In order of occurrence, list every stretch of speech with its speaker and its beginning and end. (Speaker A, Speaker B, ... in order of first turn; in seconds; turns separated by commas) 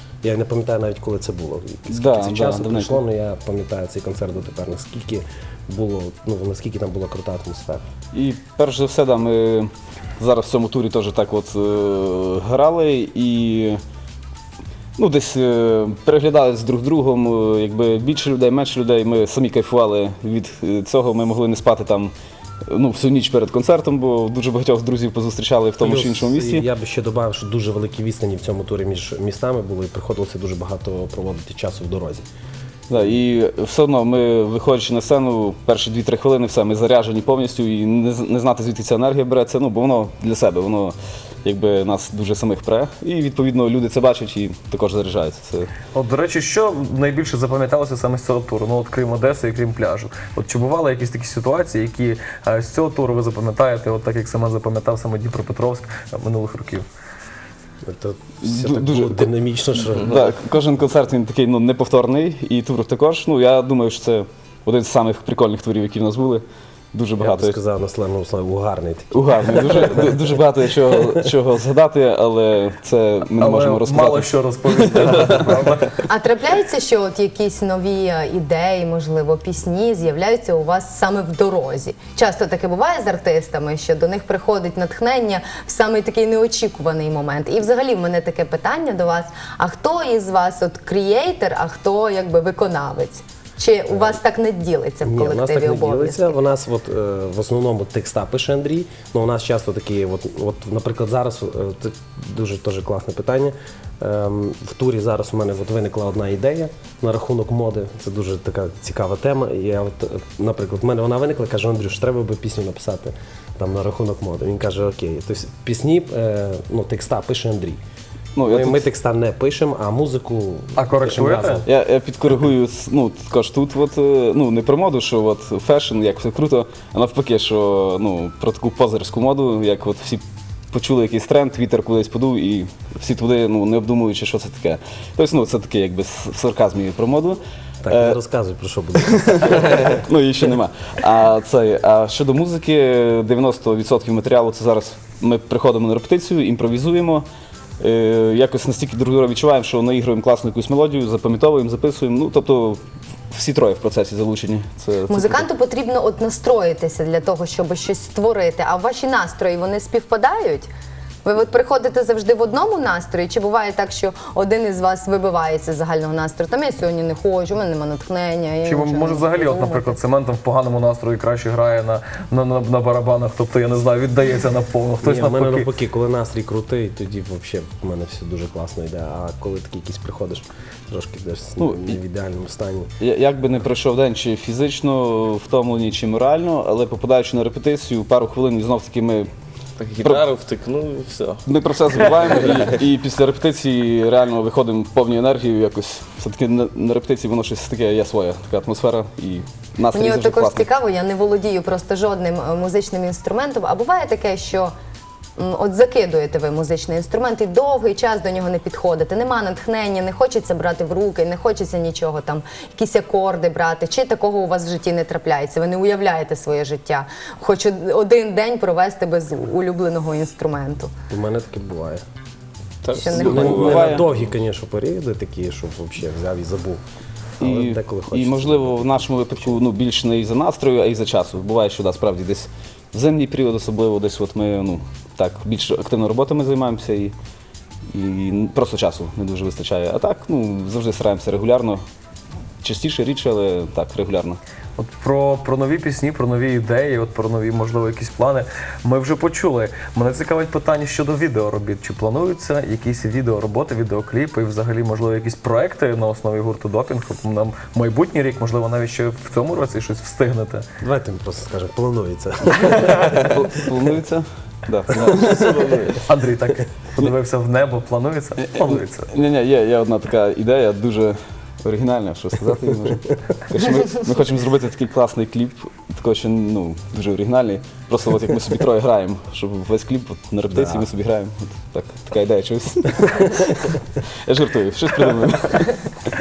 Speaker A: 0.2-7.8, Speaker B: 1.9-3.0, Speaker B: 8.1-13.8, Speaker B: 15.0-22.1, Speaker B: 22.7-26.7, Speaker A: 25.8-32.2, Speaker B: 32.9-45.7, Speaker C: 45.9-56.9, Speaker A: 57.9-60.1, Speaker B: 58.4-67.6, Speaker A: 67.2-70.2, Speaker B: 69.1-75.4, Speaker C: 73.4-76.0, Speaker D: 76.0-96.4, Speaker A: 93.9-94.2, Speaker A: 95.0-117.8, Speaker B: 118.3-118.8, Speaker A: 118.5-121.7, Speaker C: 120.8-121.6, Speaker B: 121.7-138.2, Speaker A: 137.8-140.0, Speaker B: 139.2-147.2, Speaker B: 147.8-155.5, Speaker D: 155.1-160.7, Speaker D: 161.2-170.0, Speaker C: 168.7-175.7, Speaker A: 175.0-182.9, Speaker B: 181.6-182.0, Speaker B: 183.0-189.3, Speaker E: 189.8-192.7, Speaker B: 190.0-190.3, Speaker B: 191.4-200.7, Speaker D: 199.9-204.7, Speaker D: 205.4-220.9, Speaker A: 221.1-222.0, Speaker E: 222.8-223.9, Speaker D: 222.9-224.0, Speaker B: 223.1-224.1, Speaker A: 223.1-226.8, Speaker A: 227.4-229.6, Speaker B: 227.4-237.2, Speaker B: 237.9-241.8, Speaker B: 242.6-244.4, Speaker C: 244.8-260.7, Speaker A: 260.8-263.4, Speaker B: 263.2-265.6, Speaker E: 264.9-266.0, Speaker C: 266.0-269.1, Speaker B: 268.4-285.9, Speaker A: 280.5-280.9